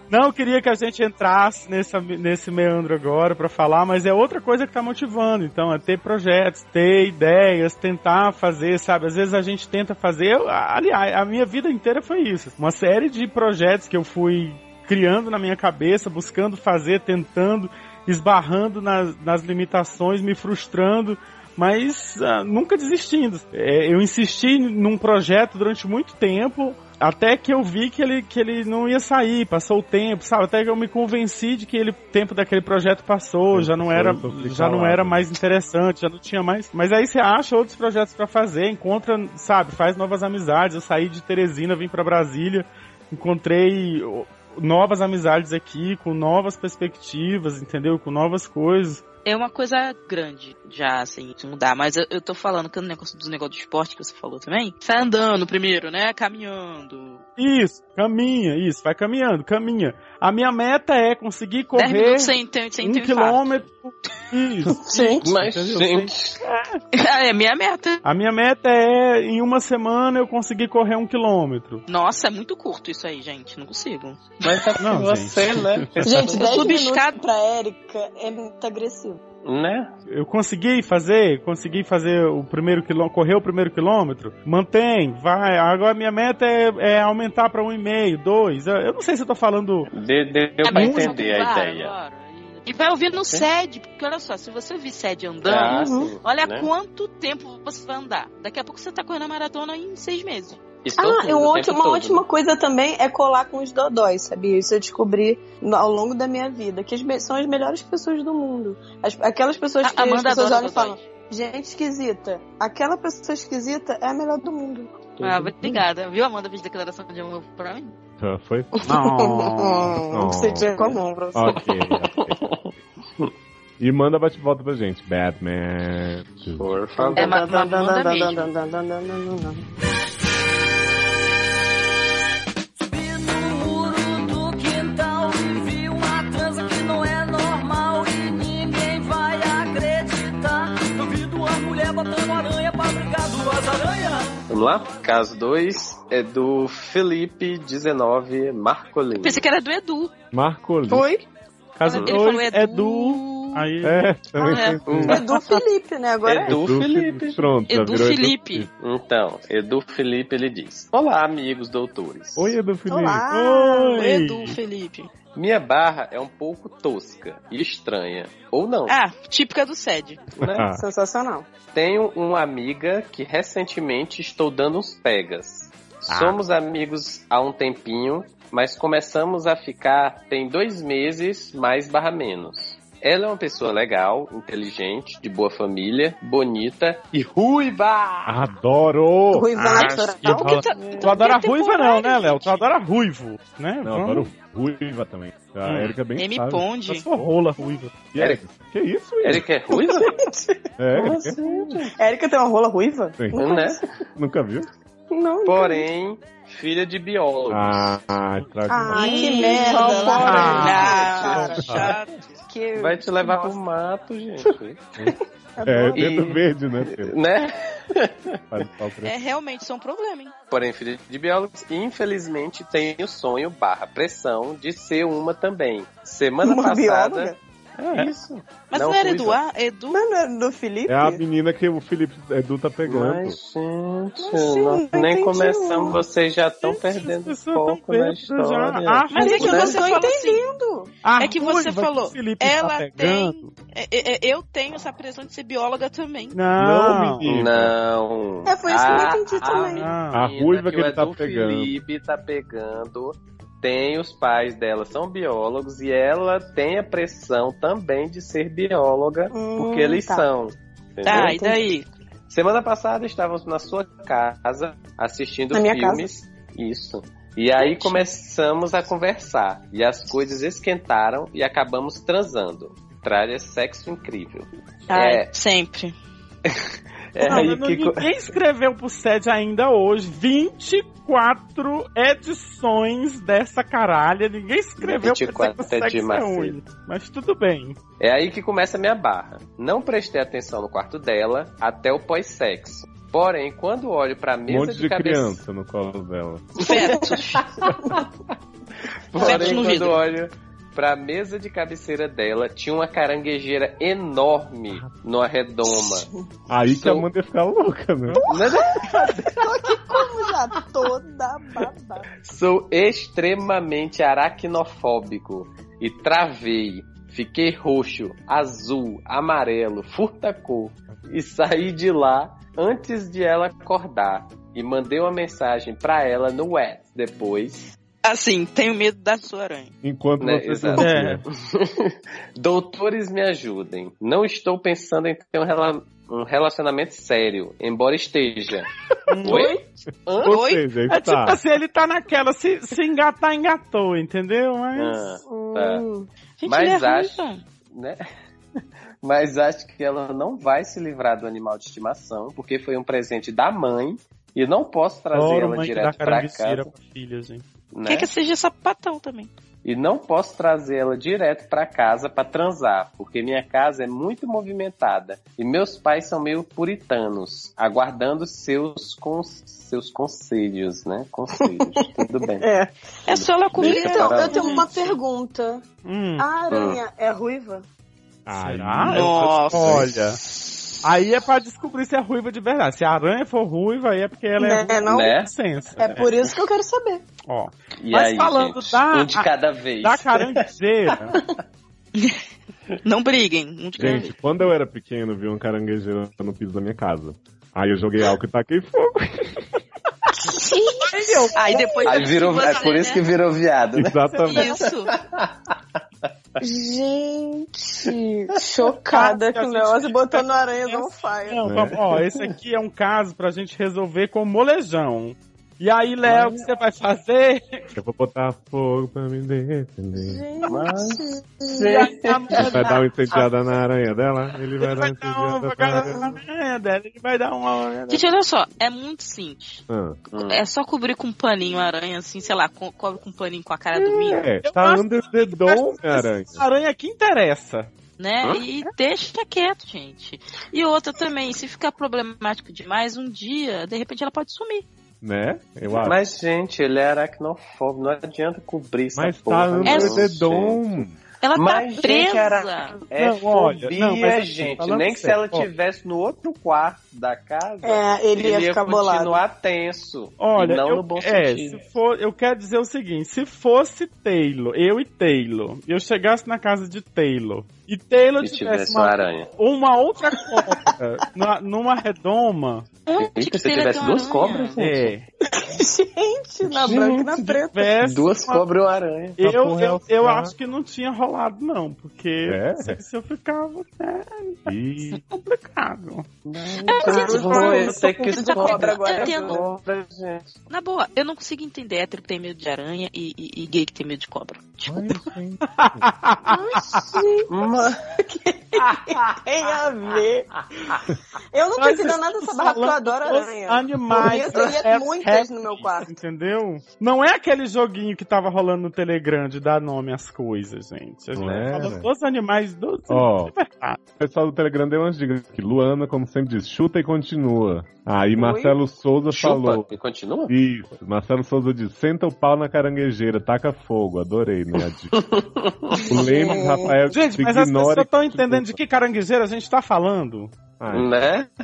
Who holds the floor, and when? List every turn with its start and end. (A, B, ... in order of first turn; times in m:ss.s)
0:00.1-0:49.0 A
0:33.5-0:35.2 B
0:49.2-0:57.2 C
0:57.4-1:06.8 A
1:01.8-1:03.4 C
1:04.7-1:05.2 D
1:05.2-1:06.4 E
1:06.9-1:08.0 C
1:08.0-1:11.8 A
1:11.9-1:14.7 C
1:14.4-1:16.6 E
1:14.8-1:16.1 A
1:16.0-1:19.2 D
1:16.3-1:17.2 C
1:19.4-1:19.9 E
1:20.1-1:29.9 A
1:29.9-1:32.0 E
1:30.6-1:40.6 C
1:30.7-1:31.2 A
1:33.1-1:33.5 E
1:35.4-1:36.7 E
1:35.7-1:36.1 D
1:40.8-1:42.3 E
1:41.0-1:55.0 D
1:49.8-1:51.0 C
1:55.2-1:58.0 C
1:58.2-1:58.7 B
1:58.8-2:01.6 D
1:58.8-2:00.0 A
2:00.1-2:02.4 B
2:02.1-2:03.3 E
2:03.8-2:06.7 B
2:06.6-2:07.4 E
2:07.0-2:09.6 D
2:07.2-2:08.5 C
2:12.8-2:24.4 F
2:24.5-2:29.4 E
2:29.2-2:30.1 C
2:30.3-2:31.1 B
2:30.9-2:31.2 D
2:31.8-2:34.1 A
2:31.9-2:32.2 E
2:31.9-2:33.6 C
2:33.8-2:35.2 B
2:34.4-2:34.8 C
2:34.9-2:35.2 E
2:35.1-2:36.6 D
2:36.2-2:37.5 E
2:36.5-2:38.7 B
2:37.7-2:38.7 C
2:38.8-2:42.6 E
2:42.4-2:43.2 B
2:42.9-2:44.0 D
2:43.3-2:44.6 A
2:44.0-2:45.1 C
2:45.4-2:49.0 E
2:48.9-2:50.2 C
2:50.4-2:50.7 E
2:50.4-2:50.8 B
2:50.7-2:51.5 D
2:51.7-3:08.4 E
2:56.1-2:56.4 A
3:08.2-3:09.9 B
3:09.3-3:10.7 D
3:09.6-3:14.3 A
3:09.7-3:12.6 C
3:10.7-3:11.2 E
3:13.8-3:16.7 B
3:15.6-3:16.0 A
3:16.2-3:17.0 C
3:16.9-3:18.0 A
3:18.1-3:19.5 B
3:19.2-3:20.2 E
3:19.7-3:23.8 D
3:20.8-3:21.4 B
3:21.0-3:22.0 E
3:23.4-3:23.8 E
3:24.2-3:24.7 B
3:25.1-3:25.9 D
3:25.4-3:28.0 E
3:27.5-3:29.6 B
3:28.7-3:31.8 D
3:28.9-3:32.4 C
3:29.4-3:31.9 E
3:29.9-3:31.8 A
3:30.3-3:30.7 B
3:31.4-3:31.9 B
3:32.5-3:33.6 D
3:32.8-3:35.0 E
3:34.4-3:37.1 B
3:35.6-3:36.2 D
3:35.9-3:38.4 E
3:38.5-3:39.2 B
3:39.0-3:40.3 C
3:40.5-3:47.4 E
3:46.4-3:47.4 D
3:47.8-3:48.1 A
3:47.9-3:49.4 E
3:48.7-3:50.0 C
3:49.9-3:51.2 D
3:50.9-3:53.4 B
3:52.8-3:59.8 E
3:54.2-3:56.0 D
3:56.6-3:59.8 A
3:59.1-4:00.4 C
3:59.2-4:00.9 D
4:01.0-4:03.5 A
4:01.2-4:06.4 C
4:06.3-4:07.3 A
4:06.6-4:07.7 B
4:07.2-4:21.4 E
4:08.5-4:09.9 D
4:09.6-4:10.2 A
4:10.1-4:11.7 B
4:19.3-4:20.3 D
4:21.1-4:21.9 C
4:21.1-4:21.6 D
4:22.3-4:35.3 E
4:25.5-4:26.1 D
4:27.6-4:28.0 C
4:34.9-4:36.0 C
4:37.1-4:38.3 E
4:37.2-4:47.8 A
4:44.8-4:46.6 E
4:48.0-4:55.4 E
4:54.5-4:56.7 B
4:56.6-4:57.4 C
4:56.8-4:57.1 D
4:57.4-4:58.0 E
4:59.1-5:06.1 E
4:59.2-5:00.0 C
4:59.2-4:59.6 D
5:04.7-5:05.0 B
5:05.7-5:06.2 D
5:06.5-5:08.3 B
5:06.6-5:07.1 E
5:08.2-5:12.1 D
5:08.3-5:09.4 E
5:12.2-5:27.7 E
5:28.0-5:29.7 C
5:29.8-5:31.2 B
5:30.2-5:38.7 E
5:30.7-5:31.2 A
5:39.1-5:39.5 A
5:39.2-5:39.7 D
5:39.2-5:40.4 E
5:40.2-5:40.6 C
5:40.2-5:41.4 B
5:40.9-5:45.0 A
5:44.8-5:45.9 E
5:45.2-5:46.1 D
5:46.4-5:47.4 C
5:46.5-5:48.0 E
5:49.0-5:56.7 E
5:55.1-5:57.5 A
5:57.7-5:58.1 E
5:57.9-5:59.3 C
5:59.6-6:12.5 E
6:11.4-6:13.0 D
6:13.1-6:15.0 C
6:13.1-6:14.7 E
6:13.6-6:15.6 D
6:15.8-6:16.3 A
6:16.2-6:17.7 D
6:16.5-6:16.8 E
6:18.3-6:19.9 B
6:18.4-6:20.2 A
6:18.9-6:20.8 C
6:20.8-6:26.1 A
6:24.4-6:25.1 D
6:24.9-6:25.3 E
6:25.8-6:27.0 D
6:27.3-6:29.3 A
6:27.8-6:30.5 E
6:29.8-6:31.2 A
6:31.0-6:31.3 E
6:32.0-6:32.2 C
6:32.8-6:34.1 C
6:33.8-6:39.6 B
6:40.3-6:42.0 D
6:40.9-6:42.7 A
6:41.3-6:43.0 C
6:41.9-6:45.6 E
6:43.7-6:44.6 B
6:44.3-6:44.9 C
6:46.4-6:51.4 D
6:48.9-6:57.7 A
6:51.4-6:51.8 B
6:56.0-6:56.4 E
6:57.8-7:00.2 B
7:00.0-7:01.8 D
7:00.5-7:03.2 E
7:01.6-7:02.8 A
7:02.3-7:06.2 B
7:04.6-7:08.1 A
7:05.8-7:06.1 D
7:07.9-7:09.6 C
7:09.7-7:10.0 B
7:10.1-7:10.4 E
7:10.2-7:14.3 C
7:13.8-7:16.4 B
7:14.4-7:17.7 A
7:18.0-7:24.7 C
7:25.0-7:26.0 B
7:25.7-7:30.8 E
7:29.0-7:31.0 B
7:29.7-7:30.0 C
7:31.2-7:32.8 C
7:31.4-7:41.6 E
7:32.9-7:35.5 A
7:37.6-7:39.2 D
7:40.2-7:52.7 A
7:48.2-7:49.3 E
7:52.9-7:54.6 C
7:53.0-7:54.9 E
7:54.6-7:55.1 A
7:55.3-7:57.8 D
7:56.4-7:59.2 E
7:57.6-7:58.4 A
7:59.2-8:06.1 A
7:59.2-8:00.3 B
8:02.3-8:02.8 B
8:04.5-8:05.0 B
8:06.2-8:10.4 E
8:06.6-8:09.4 C
8:06.8-8:09.5 D
8:10.5-8:15.1 C
8:14.7-8:15.9 B
8:15.4-8:17.0 A
8:16.3-8:20.3 D
8:17.3-8:17.8 E
8:21.3-8:25.9 D
8:21.6-8:33.8 A
8:31.2-8:31.7 E
8:31.2-8:31.9 B
8:32.9-8:33.3 B
8:34.0-8:39.7 B
8:38.2-8:38.6 D
8:39.1-8:40.3 E
8:40.3-8:45.0 B
8:44.9-8:46.1 E
8:45.8-8:46.8 D
8:45.9-8:48.6 B
8:46.9-8:50.3 A
8:50.6-8:50.9 B
8:50.7-8:51.3 E